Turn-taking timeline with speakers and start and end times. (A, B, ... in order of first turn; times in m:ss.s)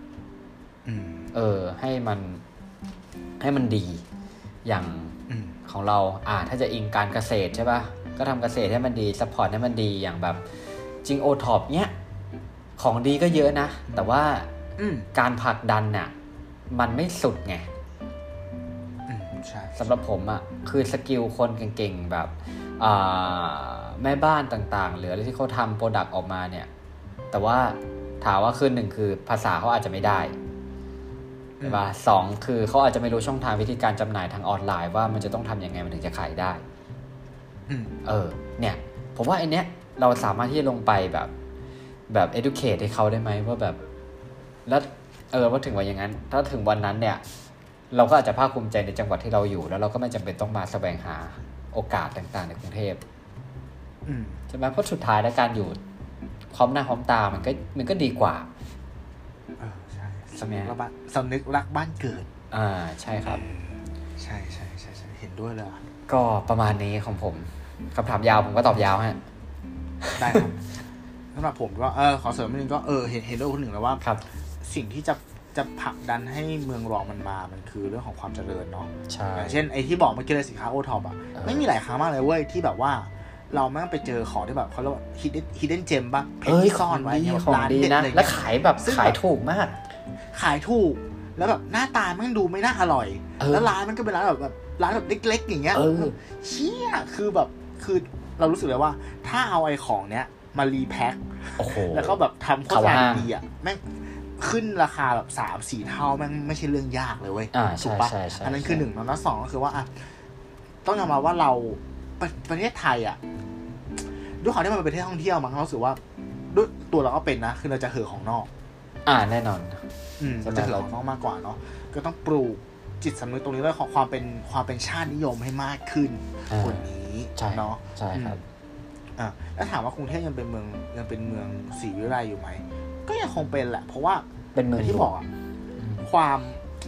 0:00.9-0:01.3 A
0:01.3-0:02.4 B
0:03.4-0:04.0 B
0:04.6-0:10.4 B
0:05.3-0:05.6 A
0:11.0-0:11.9 B
0:12.8-0:14.5 B
0:14.8-0:15.1 A
0:15.1-0:16.1 B
0:16.7-0:17.7 B
0:19.1-0:20.0 A
0:19.8-0:26.7 B
0:27.3-0:30.3 B
0:31.6-0:31.9 A
0:31.6-0:36.6 B
0:37.7-0:38.0 A
0:38.0-0:41.3 B
0:42.1-0:43.8 B
0:44.7-0:47.2 B
0:47.9-0:53.0 B
0:54.1-0:54.4 A
0:54.5-0:55.8 B
0:56.5-0:58.5 B
0:59.6-1:02.3 A
1:00.4-1:00.8 B
1:02.5-1:03.4 B
1:03.2-1:05.8 A
1:06.1-1:09.2 B
1:10.0-1:10.5 B
1:10.2-1:10.6 A
1:11.3-1:14.0 A
1:14.6-1:29.2 A
1:19.1-1:19.6 B
1:21.4-1:21.6 B
1:26.4-1:29.8 B
1:30.3-1:50.0 A
1:33.4-1:33.7 B
1:35.7-1:36.2 B
1:41.6-1:43.3 B
1:47.5-1:48.8 B
1:50.8-1:53.2 A
1:54.0-1:56.0 A
1:56.5-1:58.5 A
1:59.1-1:59.8 B
2:00.2-2:08.4 A
2:00.4-2:00.8 B
2:06.5-2:08.4 B
2:09.2-2:15.3 A
2:14.6-2:15.1 B
2:15.8-2:16.1 B
2:16.0-2:16.6 A